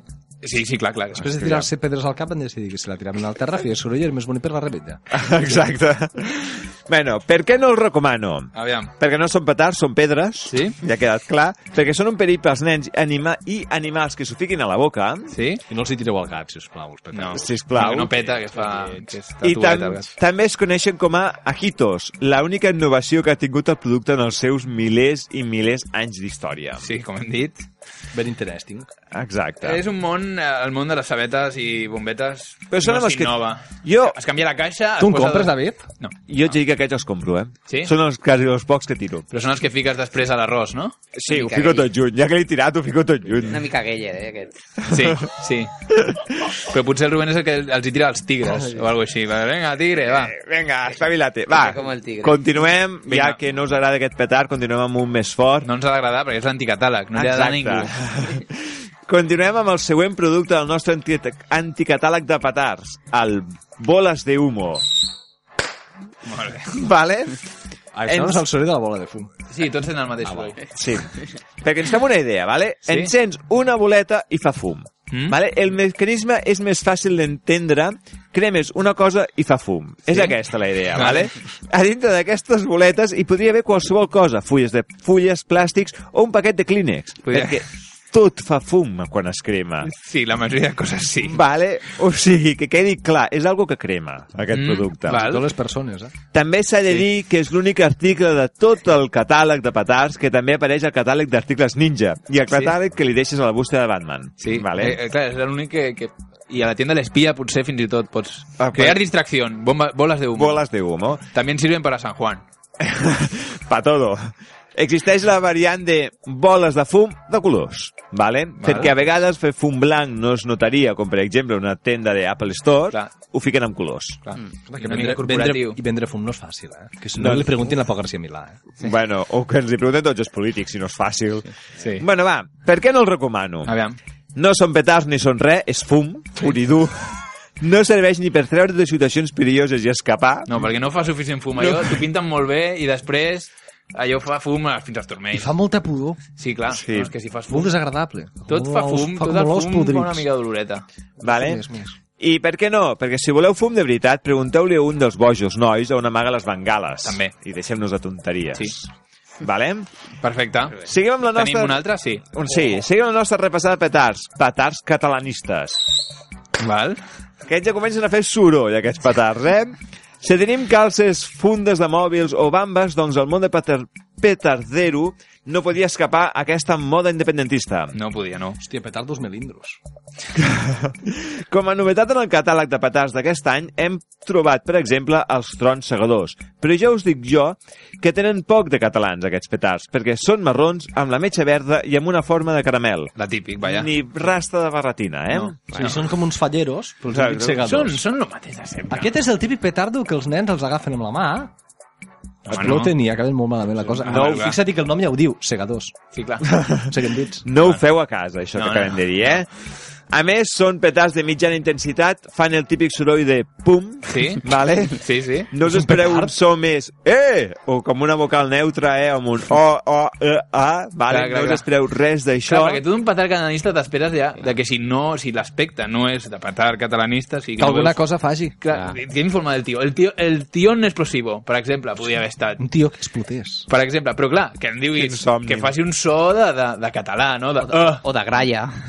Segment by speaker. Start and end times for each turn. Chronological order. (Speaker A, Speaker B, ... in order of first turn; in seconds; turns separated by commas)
Speaker A: 0.4-1.3, Speaker B: 1.1-5.0, Speaker C: 1.4-1.7, Speaker C: 5.1-15.4, Speaker A: 8.6-8.9, Speaker A: 10.5-10.8, Speaker A: 15.3-15.6, Speaker B: 15.7-17.6, Speaker A: 17.1-20.1, Speaker C: 17.3-18.2, Speaker B: 18.5-19.2, Speaker C: 19.4-26.9, Speaker A: 26.8-27.6, Speaker B: 28.1-28.9, Speaker C: 29.1-29.8, Speaker A: 29.6-36.1, Speaker C: 32.7-34.2, Speaker B: 35.0-35.9, Speaker C: 36.3-39.3, Speaker A: 39.3-41.0, Speaker C: 41.1-43.7, Speaker D: 41.3-41.9, Speaker D: 43.4-44.5, Speaker A: 44.9-45.7, Speaker A: 46.5-50.4, Speaker C: 50.0-55.7, Speaker D: 51.5-52.4, Speaker A: 53.1-53.4, Speaker A: 55.6-57.9, Speaker C: 57.1-58.6, Speaker C: 59.1-65.0, Speaker A: 66.3-66.7, Speaker C: 66.7-67.5, Speaker B: 68.0-69.3, Speaker C: 68.1-68.5, Speaker A: 69.5-70.7, Speaker C: 70.7-89.9, Speaker A: 72.8-73.1, Speaker A: 75.1-75.4, Speaker A: 80.1-80.3, Speaker A: 80.9-81.3, Speaker A: 87.3-87.6, Speaker A: 89.8-91.4, Speaker C: 91.2-95.3, Speaker A: 94.5-95.5, Speaker B: 95.1-96.1, Speaker C: 96.3-105.0, Speaker A: 104.4-110.6, Speaker C: 108.6-109.0, Speaker C: 110.3-111.2, Speaker A: 111.3-112.4, Speaker C: 112.8-124.2, Speaker A: 118.6-118.9, Speaker A: 124.2-125.8, Speaker B: 124.7-128.6, Speaker C: 127.2-127.7, Speaker C: 128.8-133.7, Speaker A: 131.8-132.1, Speaker A: 133.7-134.0, Speaker C: 134.3-140.5, Speaker A: 140.5-145.6, Speaker C: 141.6-141.9, Speaker B: 145.3-146.2, Speaker A: 146.4-147.8, Speaker C: 146.7-147.1, Speaker B: 147.5-150.2, Speaker A: 148.5-150.8, Speaker C: 151.2-151.6, Speaker B: 151.2-152.0, Speaker C: 152.2-158.8, Speaker A: 157.0-157.3, Speaker C: 159.4-159.9, Speaker A: 160.2-160.8, Speaker C: 160.8-166.0, Speaker A: 161.3-162.2, Speaker A: 166.6-167.0, Speaker C: 167.4-178.0, Speaker A: 177.9-178.6, Speaker B: 178.6-179.8, Speaker C: 180.3-195.6, Speaker A: 193.2-193.9, Speaker A: 195.3-196.1, Speaker D: 195.7-196.0, Speaker B: 195.8-198.0, Speaker C: 197.1-197.6, Speaker A: 197.6-199.2, Speaker B: 198.9-201.5, Speaker A: 202.5-202.9, Speaker B: 202.5-205.9, Speaker A: 203.8-204.6, Speaker A: 206.1-206.6, Speaker B: 206.8-207.5, Speaker C: 207.4-209.5, Speaker A: 208.6-209.4, Speaker C: 210.1-222.8, Speaker A: 214.1-214.4, Speaker A: 215.0-215.6, Speaker B: 215.6-216.3, Speaker A: 221.1-221.7, Speaker A: 222.4-228.0, Speaker B: 227.6-228.6, Speaker A: 228.6-232.7, Speaker D: 228.7-229.0, Speaker B: 232.6-233.7, Speaker A: 233.7-238.1, Speaker C: 234.9-235.8, Speaker D: 237.6-238.8